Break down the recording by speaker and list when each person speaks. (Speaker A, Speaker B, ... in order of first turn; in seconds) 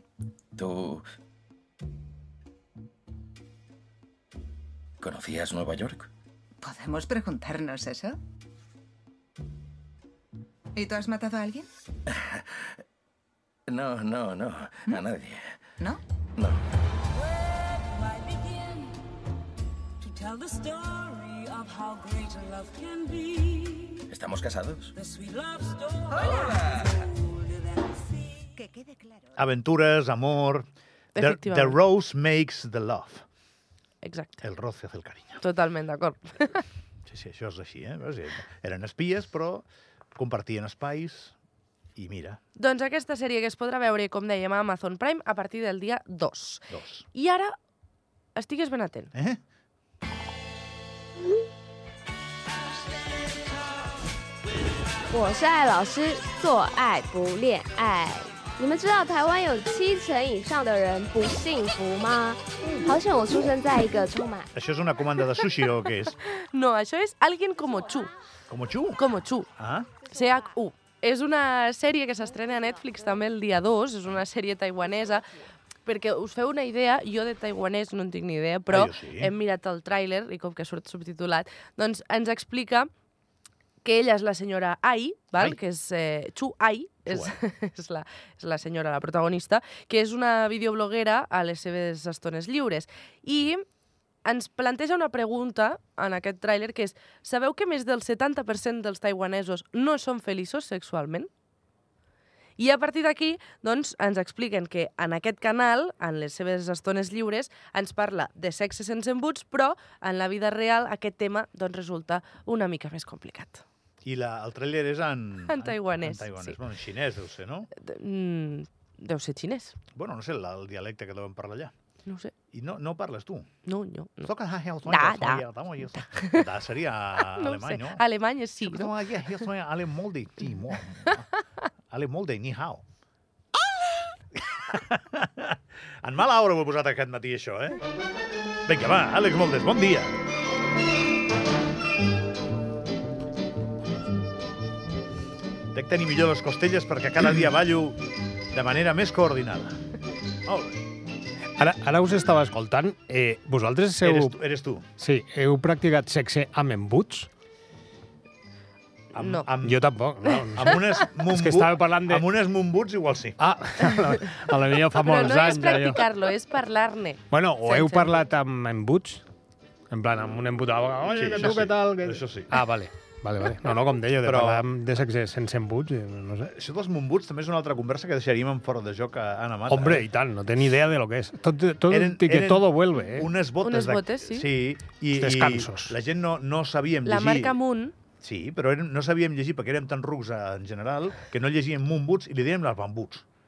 Speaker A: 0.6-1.1, 5.0-6.1, 13.7-15.5, 24.1-24.9
Speaker B: 6.6-8.2, 10.8-11.7
Speaker C: 29.4-30.6, 31.2-33.2, 34.4-35.4, 37.1-41.4, 42.0-42.4, 46.7-47.1, 49.1-49.4, 64.5-66.2, 68.5-69.0, 69.6-69.9, 78.7-79.3, 87.1-87.3, 114.0-117.7, 120.0-121.7, 122.5-123.5, 124.2-128.0, 128.6-131.3, 131.9-132.8, 134.4-137.8, 138.7-140.2, 145.7-148.0, 148.5-149.8, 150.5-150.8, 154.0-154.9, 159.1-159.9, 160.6-163.4, 171.1-172.5, 174.2-174.7, 176.5-180.1, 181.9-187.6, 188.2-193.2
Speaker D: 31.1-31.8, 34.0-34.4, 35.4-36.6, 42.6-47.5, 48.4-49.1, 62.6-62.9, 66.2-68.1, 69.0-69.5, 70.0-75.2, 75.9-82.9, 83.8-93.6, 94.2-101.3, 102.6-113.6, 115.5-116.6, 117.8-119.8, 122.1-122.3, 123.7-124.3, 124.9-126.5, 127.2-128.9, 159.1-159.5, 165.0-168.2, 183.6-184.5, 187.1-187.9
Speaker E: 55.1-64.5
Speaker F: 151.6-154.4, 155.0-157.3, 159.6-162.3, 163.4-166.0, 167.3-169.2, 169.9-176.5, 179.7-183.3, 185.1-185.9